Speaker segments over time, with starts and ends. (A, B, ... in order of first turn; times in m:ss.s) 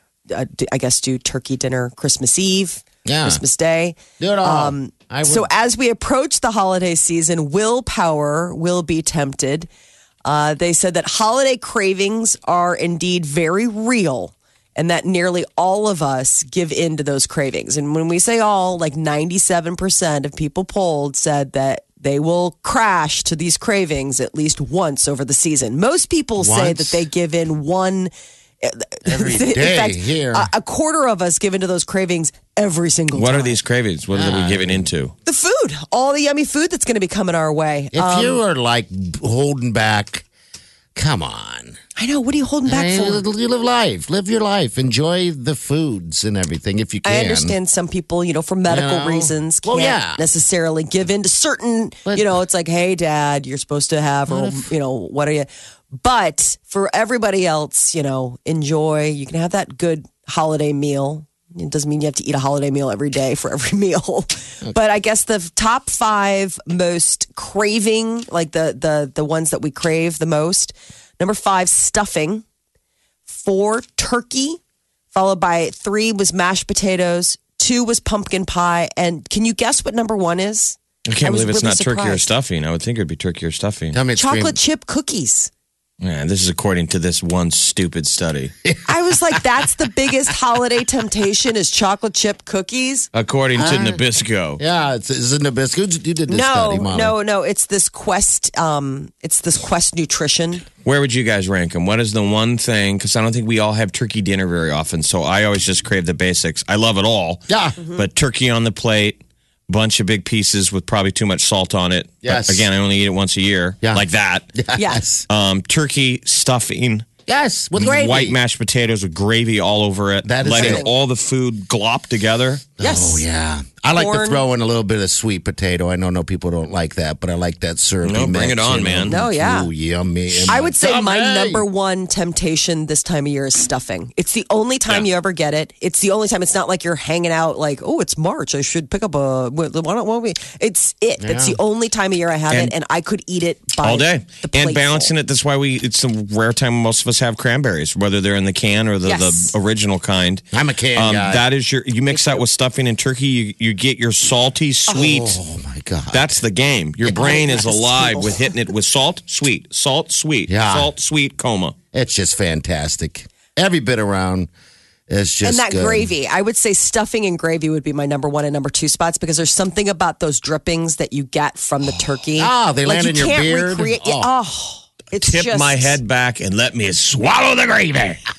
0:00.3-0:09.7 A
0:03.0-0:03.4 B
0:04.2-0:05.5 B
0:10.2-0:28.1 A
0:26.4-0:27.0 B
0:28.6-0:33.6 A
0:29.0-0:30.5 B
0:33.1-0:35.1 C
0:34.1-0:34.9 B
0:35.2-0:38.4 A
0:37.9-0:40.2 B
0:40.9-0:41.8 B
0:42.0-0:43.2 A
0:42.6-0:47.6 B
0:47.0-1:12.4 A
0:48.7-0:50.2 B
0:52.0-0:52.4 B
0:54.3-0:54.7 B
1:13.3-1:14.6 A
1:15.1-1:22.3 A
1:21.1-1:24.0 C
1:23.9-1:24.6 B
1:24.2-1:25.5 A
1:26.0-1:28.5 C
1:28.6-1:29.7 B
1:28.8-1:33.1 A
1:33.1-1:34.6 C
1:33.6-1:34.0 B
1:34.6-1:37.1 B
1:36.3-1:40.6 A
1:40.8-1:54.5 C
1:47.5-1:47.8 B
1:47.8-1:48.0 A
1:52.2-1:52.7 B
1:54.5-1:55.2 B
1:54.8-1:55.0 A
1:55.3-1:57.1 C
1:57.2-1:58.4 B
1:57.7-2:02.6 C
2:00.2-2:00.9 B
2:00.5-2:00.9 A
2:02.8-2:11.6 B
2:02.8-2:03.2 A
2:03.9-2:04.4 A
2:08.0-2:09.2 C
2:09.1-2:09.7 A
2:10.5-2:25.1 A
2:21.2-2:21.6 B
2:23.8-2:30.4 C
2:29.0-2:29.5 A
2:30.5-2:31.4 B
2:30.9-2:35.4 C
2:32.1-2:32.4 A
2:34.9-2:36.3 B
2:36.1-2:41.7 C
2:37.1-2:38.5 A
2:40.5-2:40.9 B
2:41.9-2:44.5 B
2:45.1-2:46.1 B
2:45.4-2:56.0 A
2:51.8-2:54.3 B
2:55.1-2:58.2 C